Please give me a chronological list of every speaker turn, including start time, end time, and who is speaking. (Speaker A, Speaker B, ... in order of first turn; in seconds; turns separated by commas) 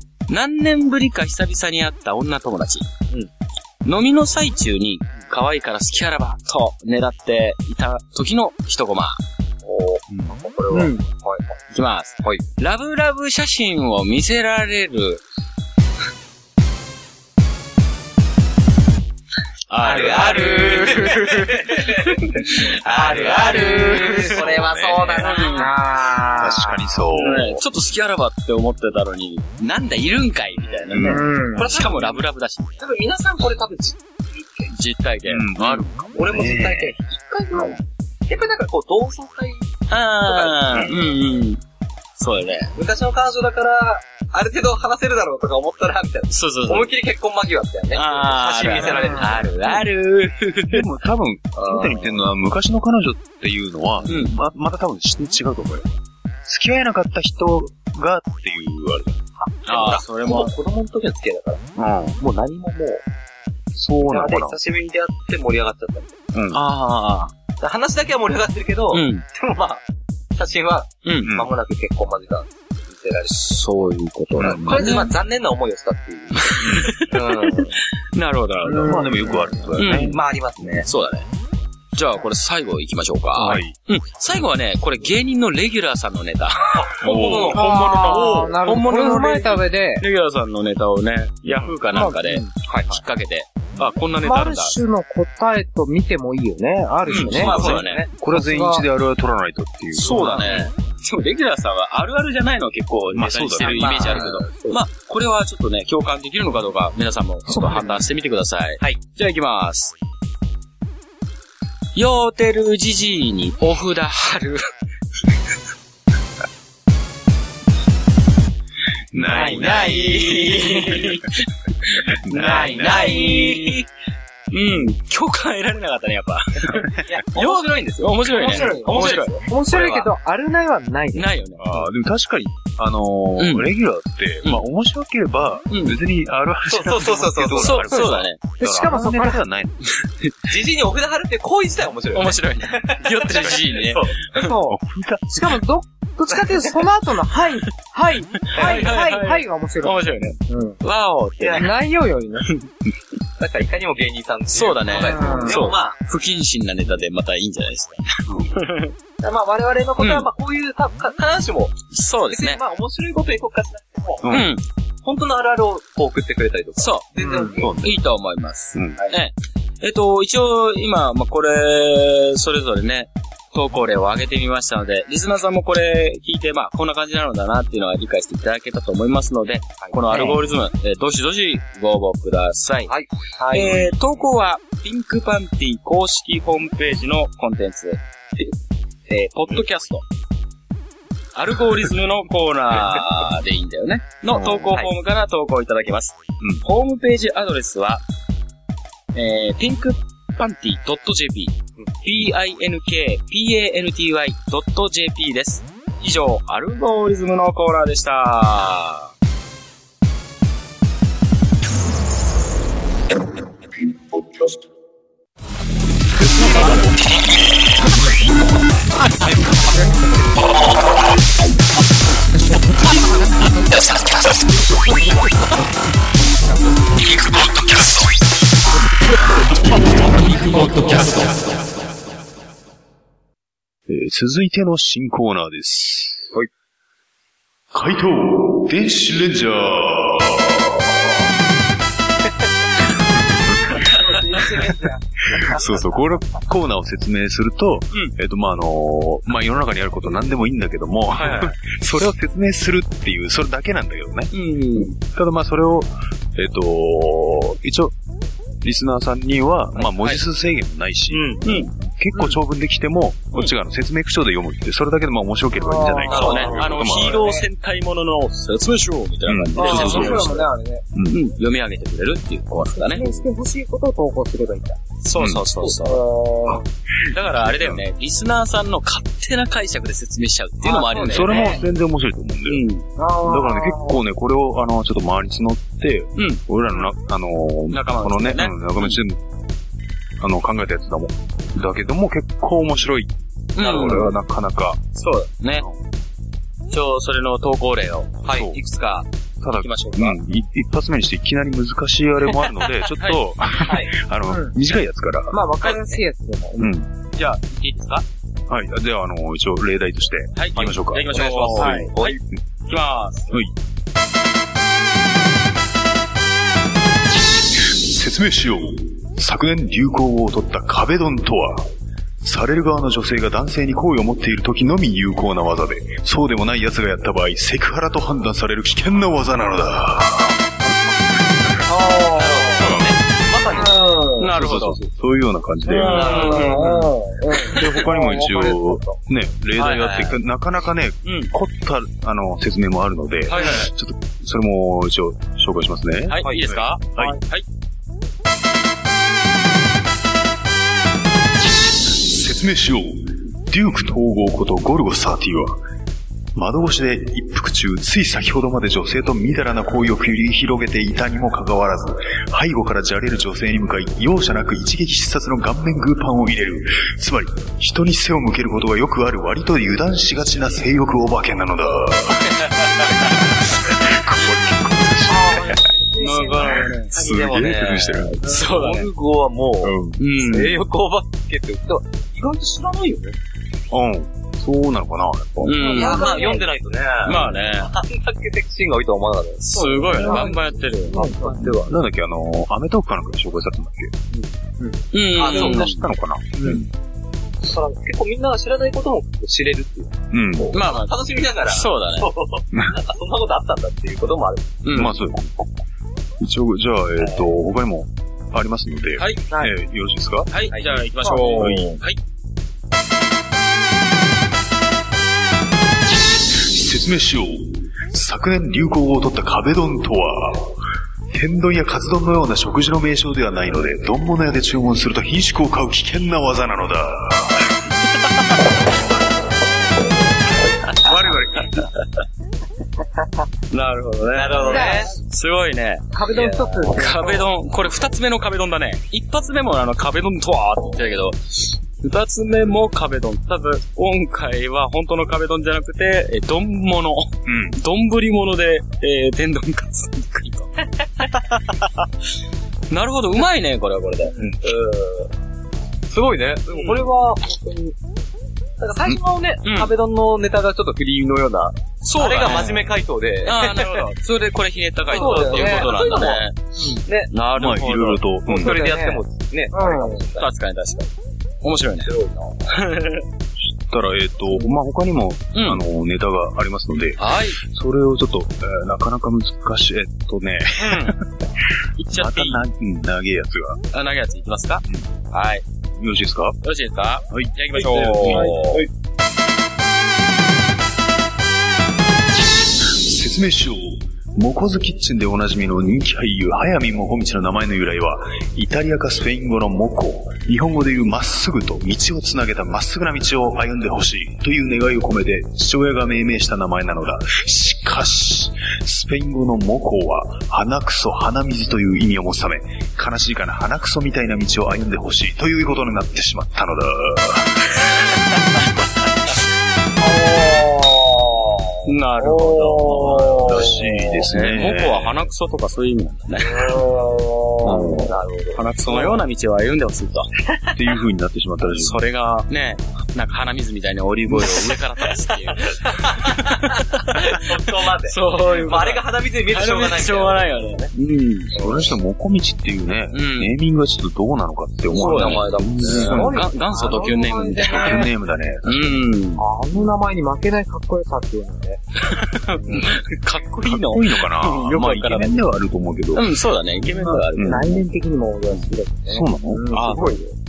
Speaker A: 0.3-2.9, Speaker A: 3.8-9.2, Speaker B: 9.6-11.6, Speaker C: 10.1-10.4, Speaker D: 10.7-11.1, Speaker A: 11.7-15.2, Speaker A: 19.7-25.8, Speaker B: 19.8-25.7, Speaker D: 23.3-24.4, Speaker D: 25.2-26.9, Speaker C: 26.4-27.6, Speaker A: 27.1-32.8, Speaker B: 30.6-32.2, Speaker C: 30.9-31.3, Speaker D: 31.0-31.7, Speaker B: 32.8-34.7, Speaker A: 34.7-35.8, Speaker C: 35.3-37.0, Speaker B: 36.1-41.2, Speaker A: 39.9-41.6, Speaker A: 42.2-42.7, Speaker B: 42.8-49.8, Speaker A: 46.3-46.9, Speaker A: 47.9-50.9, Speaker D: 48.7-49.3, Speaker C: 50.7-55.9, Speaker B: 51.6-52.3, Speaker A: 54.1-54.3, Speaker C: 56.5-59.2, Speaker B: 59.4-63.0, Speaker A: 59.7-60.5, Speaker C: 61.8-62.2, Speaker C: 63.8-64.6, Speaker B: 64.0-66.2, Speaker C: 66.3-66.6, Speaker A: 66.5-67.3, Speaker B: 67.6-69.8, Speaker A: 68.9-69.2, Speaker B: 70.3-73.7, Speaker A: 71.0-71.4, Speaker C: 71.2-71.5, Speaker A: 73.3-75.1, Speaker B: 74.3-77.8, Speaker C: 74.4-74.9, Speaker A: 76.4-79.0, Speaker C: 76.6-77.0, Speaker D: 78.7-79.7, Speaker C: 78.8-80.2, Speaker A: 79.8-80.2, Speaker B: 80.1-80.9, Speaker A: 80.8-81.3, Speaker A: 81.9-94.8, Speaker C: 83.3-83.8, Speaker B: 86.8-88.3, Speaker C: 87.0-87.6, Speaker D: 87.5-90.0, Speaker D: 91.9-92.5, Speaker B: 92.7-93.0, Speaker D: 94.2-97.6, Speaker C: 97.0-100.5, Speaker A: 97.1-98.1, Speaker B: 97.4-98.1, Speaker D: 98.2-98.9, Speaker A: 100.0-110.0, Speaker D: 100.1-100.5, Speaker B: 100.4-100.7, Speaker C: 103.1-104.3, Speaker B: 103.6-104.5, Speaker D: 104.0-104.8, Speaker D: 107.5-108.0, Speaker A: 112.0-114.6, Speaker C: 119.1-120.6, Speaker B: 119.3-121.1, Speaker A: 119.4-123.8, Speaker C: 122.2-123.1, Speaker B: 122.4-123.8, Speaker D: 122.6-123.2, Speaker A: 124.5-129.4, Speaker B: 127.0-130.1, Speaker D: 128.4-131.3, Speaker A: 131.1-131.8, Speaker C: 131.6-139.9, Speaker A: 133.4-133.7, Speaker A: 135.7-136.0, Speaker B: 136.7-137.9, Speaker A: 137.5-138.4, Speaker D: 137.9-139.4, Speaker A: 139.9-140.3, Speaker B: 140.5-144.2, Speaker A: 142.1-144.5, Speaker D: 144.3-144.8, Speaker C: 144.7-145.6, Speaker D: 145.3-150.8, Speaker A: 148.5-151.7, Speaker B: 151.4-151.7, Speaker D: 151.6-152.5, Speaker B: 153.4-156.0, Speaker A: 154.5-158.9, Speaker D: 154.9-155.6, Speaker C: 158.3-158.6, Speaker B: 159.2-164.4, Speaker A: 160.0-160.3, Speaker A: 161.9-162.6, Speaker C: 164.2-164.5, Speaker A: 164.3-164.6, Speaker B: 165.0-167.8, Speaker A: 166.8-167.1, Speaker D: 167.2-167.6, Speaker C: 167.6-168.0, Speaker A: 167.8-182.9, Speaker C: 168.7-169.0, Speaker B: 179.8-180.3, Speaker B: 182.9-183.9, Speaker A: 183.5-188.0, Speaker A: 189.1-190.0, Speaker A: 191.3-198.0, Speaker C: 194.3-194.8, Speaker A: 199.1-209.1, Speaker C: 233.9-236.3, Speaker C: 237.7-241.1, Speaker C: 243.2-243.9, Speaker D: 243.9-245.0, Speaker C: 245.3-257.9, Speaker A: 251.1-251.6, Speaker A: 254.3-254.9, Speaker C: 258.6-267.3, Speaker A: 259.8-260.2, Speaker B: 261.1-261.5, Speaker A: 261.4-261.7, Speaker D: 265.6-267.5, Speaker B: 266.1-267.0, Speaker A: 266.1-270.4, Speaker C: 269.3-271.2, Speaker D: 269.6-270.9, Speaker A: 271.1-273.0, Speaker D: 272.7-274.8, Speaker A: 275.0-276.0, Speaker C: 275.2-275.4, Speaker D: 275.6-276.6, Speaker C: 276.5-277.9, Speaker A: 277.1-281.6, Speaker D: 280.6-281.6, Speaker C: 281.1-282.6, Speaker A: 282.5-282.9, Speaker D: 283.0-284.0, Speaker C: 283.2-289.2, Speaker A: 286.1-286.4, Speaker A: 287.7-289.0, Speaker C: 290.2-294.8, Speaker A: 293.6-294.2, Speaker B: 293.6-294.0, Speaker A: 294.9-295.7, Speaker C: 295.6-295.8, Speaker A: 296.7-300.2, Speaker B: 298.2-298.6, Speaker C: 298.3-298.6, Speaker C: 299.4-305.4, Speaker B: 303.6-303.9, Speaker D: 304.3-304.6, Speaker D: 305.3-306.7, Speaker B: 305.6-306.0, Speaker C: 306.6-306.9, Speaker A: 307.2-308.1, Speaker C: 308.5-311.8, Speaker A: 310.4-313.4, Speaker B: 311.1-312.2, Speaker C: 317.7-321.7, Speaker C: 322.2-330.4, Speaker D: 331.7-332.7, Speaker B: 332.1-333.8, Speaker C: 332.6-332.9, Speaker D: 333.5-334.3, Speaker A: 334.2-334.8, Speaker C: 334.3-336.4, Speaker A: 335.7-336.8, Speaker B: 335.7-336.7, Speaker D: 336.0-339.0, Speaker C: 337.5-347.2, Speaker A: 339.6-340.1, Speaker A: 341.0-341.3, Speaker A: 343.3-343.7, Speaker A: 346.1-347.4, Speaker C: 351.9-355.6, Speaker C: 356.4-375.7, Speaker D: 375.1-376.7, Speaker A: 376.0-378.9, Speaker C: 376.4-378.4, Speaker B: 376.9-383.2, Speaker C: 379.6-380.0, Speaker A: 380.0-380.6, Speaker C: 383.7-385.8, Speaker A: 385.4-386.1, Speaker D: 385.6-386.5, Speaker B: 385.7-391.8, Speaker A: 387.1-387.7, Speaker A: 389.4-391.0, Speaker D: 390.0-391.4, Speaker C: 391.0-393.9, Speaker A: 394.9-395.8, Speaker B: 395.1-395.7, Speaker C: 395.2-396.7, Speaker B: 396.4-396.6, Speaker B: 397.4-404.6, Speaker C: 400.1-400.6, Speaker A: 400.5-402.1, Speaker A: 404.6-404.9, Speaker C: 404.7-405.3, Speaker C: 406.2-410.3, Speaker A: 409.0-409.2, Speaker A: 410.3-412.0, Speaker B: 410.5-411.5, Speaker D: 411.0-411.4, Speaker C: 411.1-411.8, Speaker C: 416.3-420.6, Speaker C: 421.1-427.5, Speaker B: 430.8-431.6, Speaker A: 430.8-431.4, Speaker A: 433.5-435.9, Speaker B: 434.1-434.9, Speaker D: 434.5-434.9, Speaker D: 435.9-437.3, Speaker B: 436.1-436.6, Speaker A: 436.7-450.5, Speaker C: 447.3-447.6, Speaker B: 450.9-451.4, Speaker A: 452.7-454.1, Speaker B: 454.2-455.1, Speaker B: 455.9-457.8, Speaker A: 456.5-456.8, Speaker B: 458.6-463.8, Speaker A: 459.4-459.7, Speaker A: 461.8-462.7, Speaker A: 463.2-466.4, Speaker B: 464.9-466.2, Speaker D: 464.9-465.8, Speaker D: 466.6-466.8, Speaker B: 466.9-467.1, Speaker A: 467.1-468.0, Speaker C: 467.4-468.6, Speaker B: 468.3-470.3, Speaker D: 468.4-470.0, Speaker A: 470.2-470.9, Speaker A: 471.4-471.9, Speaker B: 471.8-472.4, Speaker A: 472.5-473.0, Speaker C: 473.6-481.0, Speaker A: 475.3-475.6, Speaker A: 477.0-477.4, Speaker A: 480.6-481.0, Speaker A: 481.8-482.4, Speaker C: 481.9-483.6, Speaker A: 483.7-485.4, Speaker C: 485.8-486.4, Speaker A: 486.4-488.6, Speaker C: 487.1-488.4, Speaker B: 487.6-488.7, Speaker C: 492.7-517.5, Speaker B: 519.8-523.6, Speaker A: 521.7-526.6, Speaker C: 523.2-525.1, Speaker B: 526.2-528.8, Speaker C: 527.4-528.0, Speaker A: 528.3-530.1, Speaker C: 530.5-531.8, Speaker A: 531.6-541.4, Speaker C: 534.1-534.5, Speaker B: 535.6-536.4, Speaker B: 536.9-540.7, Speaker C: 541.3-546.2, Speaker B: 541.4-541.6, Speaker A: 542.9-543.3, Speaker A: 544.7-547.9, Speaker B: 544.7-546.1, Speaker D: 545.8-547.9, Speaker C: 547.4-548.9, Speaker A: 548.5-549.2, Speaker D: 549.2-551.6, Speaker A: 551.9-555.2, Speaker C: 553.4-557.6, Speaker A: 555.9-557.6, Speaker D: 557.2-560.0, Speaker C: 558.9-559.9, Speaker A: 559.5-559.8